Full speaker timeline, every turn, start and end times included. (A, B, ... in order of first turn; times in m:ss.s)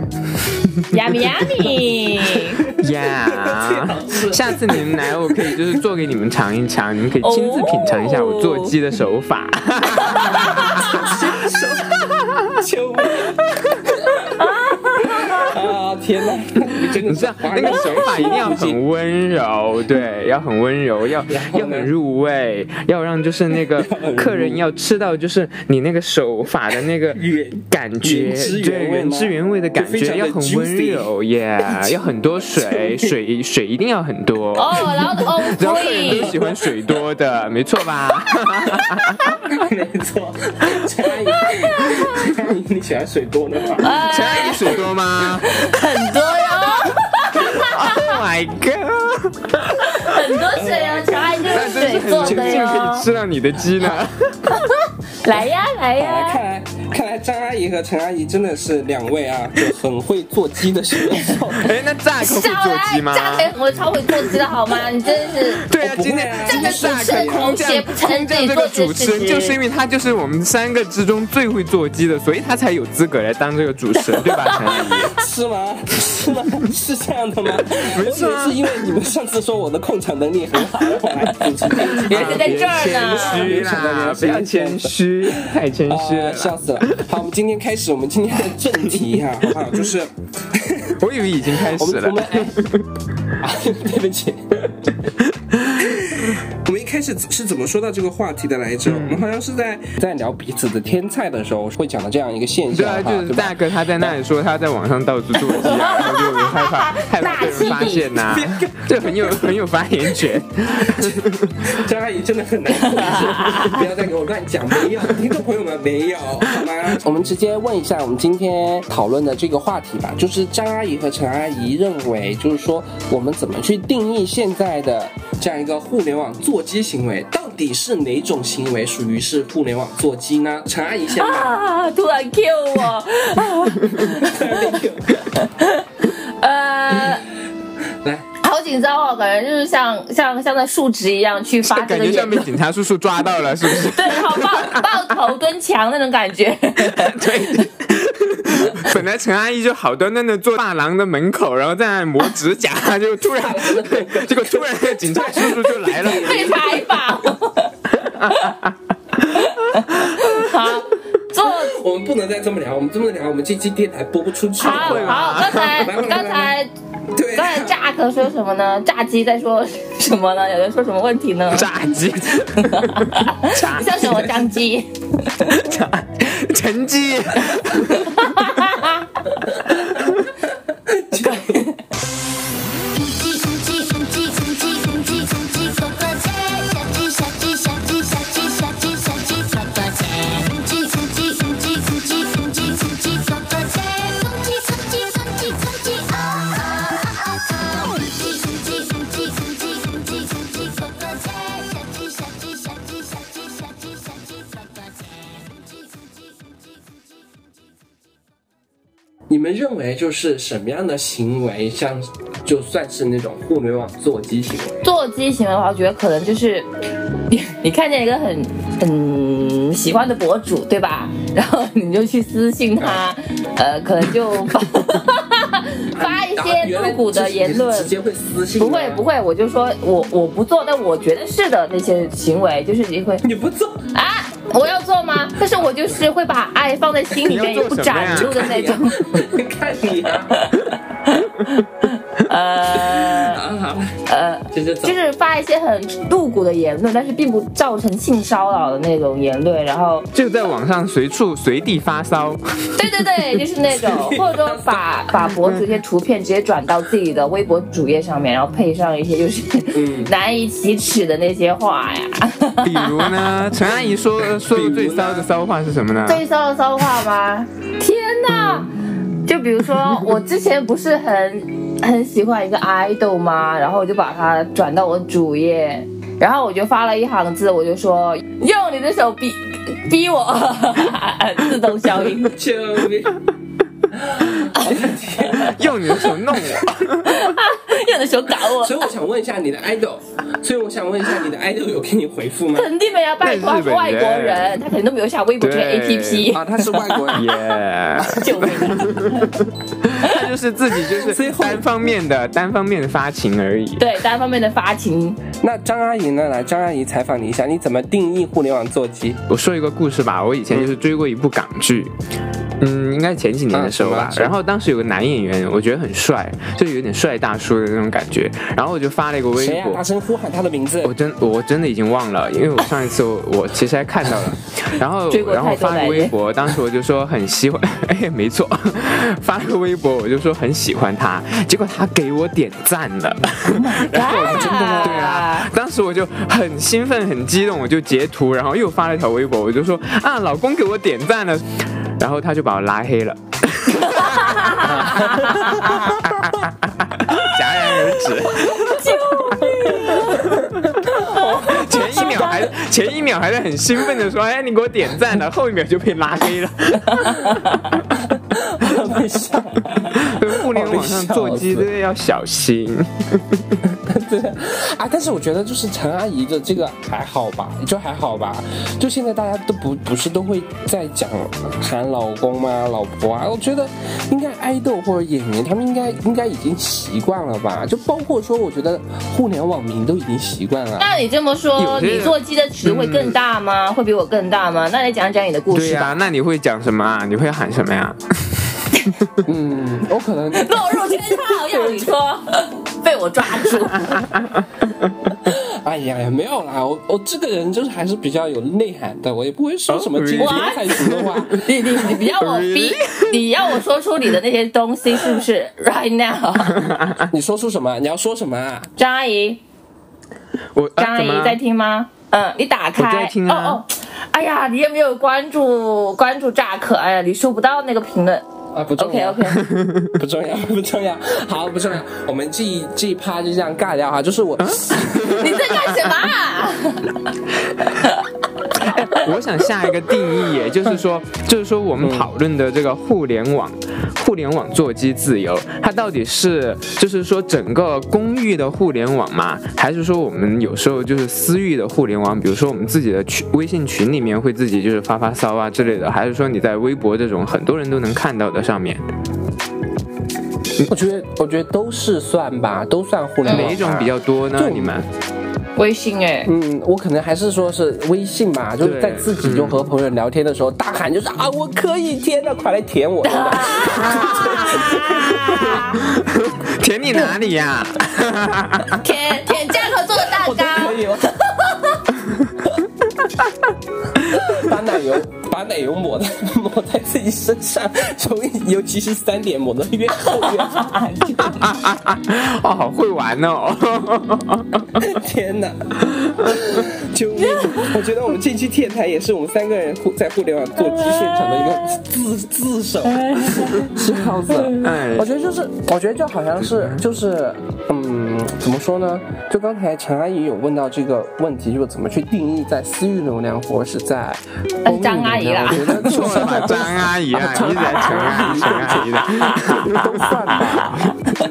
0:00.5-0:01.0 A
0:00.9-0:02.6 B
0:02.7-0:05.8 C
0:02.7-0:11.1 A
0:07.2-0:08.7 B
0:10.0-0:10.9 B
0:10.7-0:14.4 C
0:12.1-0:12.5 A
0:14.3-0:15.5 B
0:14.9-0:18.8 C
0:17.0-0:39.5 A
0:21.3-0:21.9 C
0:23.6-0:24.6 C
0:27.1-0:31.1 C
0:31.7-0:33.2 C
0:34.5-0:36.3 B
0:36.0-0:37.0 C
0:39.5-0:44.0 C
0:41.5-0:42.2 B
0:43.8-0:44.8 B
0:43.9-0:45.6 A
0:45.4-0:48.2 B
0:47.4-0:50.2 A
0:49.8-0:53.1 B
0:50.5-0:52.8 C
0:51.5-0:54.6 A
0:54.5-0:56.4 B
0:56.0-1:01.7 C
1:01.6-1:03.5 A
1:02.2-1:05.6 B
1:04.1-1:04.4 A
1:05.4-1:15.1 A
1:05.8-1:07.6 C
1:06.4-1:09.6 B
1:14.2-1:15.0 B
1:14.7-1:32.6 C
1:17.7-1:18.8 A
1:21.9-1:23.5 B
1:22.0-1:27.0 A
1:31.0-1:32.9 A
1:33.4-1:35.1 C
1:35.2-1:36.0 A
1:35.8-1:44.2 C
1:38.8-1:39.2 A
1:42.7-1:51.7 A
1:45.5-1:46.2 C
1:45.6-1:48.1 B
1:48.1-1:49.6 C
1:50.8-2:11.5 C
2:11.1-2:14.5 B
2:14.0-2:15.3 C
2:15.4-2:17.2 B
2:18.4-2:22.5 B
2:21.6-2:25.0 A
2:23.8-2:27.6 B
2:26.8-2:36.5 A
2:33.3-2:36.8 C
2:36.0-2:38.6 B
2:38.0-2:38.7 A
2:39.3-2:40.4 A
2:39.3-2:41.7 B
2:41.4-2:46.6 C
2:44.6-2:46.7 B
2:44.6-2:45.9 A
2:47.1-2:47.8 C
2:47.3-2:51.7 B
2:51.5-2:54.0 A
2:52.4-2:55.6 B
2:53.8-2:54.6 C
2:55.5-2:58.6 A
2:58.0-2:59.0 B
2:59.6-3:00.0 C
2:59.9-3:00.2 A
3:00.7-3:01.7 C
3:01.3-3:01.7 B
3:02.9-3:26.5 D
3:29.3-3:34.8 C
3:34.8-3:36.7 B
3:37.3-3:47.9 B
3:42.8-3:43.0 C
3:45.9-3:49.0 C
3:48.6-3:53.2 B
3:53.2-3:53.9 C
3:53.9-3:59.3 B
3:57.2-3:58.5 A
3:58.0-4:00.4 C
4:00.3-4:03.4 B
4:02.7-4:04.0 C
4:04.0-4:10.1 B
4:04.5-4:05.0 C
4:10.1-4:13.2 A
4:12.8-4:23.2 B
4:13.8-4:14.8 C
4:19.7-4:20.1 C
4:22.6-4:26.2 A
4:24.4-4:25.3 C
4:26.0-4:28.7 B
4:28.3-4:28.7 A
4:29.2-4:42.3 B
4:42.2-4:43.2 C
4:43.9-4:45.8 C
4:45.3-4:47.3 A
4:46.4-4:46.6 C
4:47.0-4:48.8 B
4:48.4-4:52.7 C
4:52.5-4:59.4 B
4:53.2-4:54.6 A
4:55.4-4:56.4 A
4:56.3-4:57.3 C
4:57.1-5:03.8 A
5:00.8-5:01.7 C
5:03.8-5:05.2 B
5:05.4-5:09.2 C
5:09.3-5:11.9 A
5:12.6-5:19.8 A
5:13.5-5:14.4 C
5:19.3-5:20.9 C
5:20.8-5:49.0 A
5:25.1-5:26.1 B
5:33.5-5:35.5 B
5:34.0-5:35.1 C
5:43.8-5:46.0 B
5:44.6-5:45.8 C
5:48.4-5:50.4 B
5:49.6-5:52.5 C
5:49.9-5:50.8 A
5:50.9-5:52.5 B
5:51.4-5:57.6 A
5:57.0-5:57.5 B
5:58.0-6:01.7 C
5:59.9-6:03.6 A
6:03.7-6:20.9 C
6:20.8-6:26.0 B
6:21.6-6:23.2 A
6:25.5-6:29.1 A
6:29.2-6:31.9 C
6:30.3-6:34.1 B
6:33.7-6:34.9 A
6:35.2-6:41.4 C
6:39.7-6:41.3 A
6:40.2-6:40.8 B
6:41.3-6:46.7 B
6:41.8-6:43.3 A
6:46.5-6:47.1 A
6:47.1-6:48.7 C
6:48.8-6:49.4 B
6:50.5-6:51.4 A
6:50.8-6:58.2 B
6:52.8-6:53.6 A
6:58.5-6:59.4 C
6:58.8-6:59.4 B
6:59.4-6:59.9 A
6:59.9-7:05.2 C
7:04.4-7:05.6 A
7:05.0-7:07.0 B
7:08.6-7:28.8 A
7:11.8-7:12.1 C
7:30.7-7:34.8 C
7:33.2-7:33.5 B
7:33.3-7:34.9 A
7:35.6-7:36.3 B
7:36.2-7:45.6 C
7:38.6-7:39.6 A
7:43.0-7:45.8 B
7:43.7-7:48.8 A
7:48.8-7:51.8 B
7:50.0-7:51.2 C
7:54.0-8:00.7 C
8:00.2-8:01.5 B
8:01.2-8:04.9 A
8:04.8-8:30.9 C
8:05.8-8:06.5 A
8:10.7-8:11.7 B
8:12.9-8:13.7 B
8:14.3-8:14.6 B
8:14.6-8:15.1 A
8:16.4-8:16.8 A
8:24.6-8:26.3 B
8:25.5-8:30.9 A
8:29.2-8:29.4 B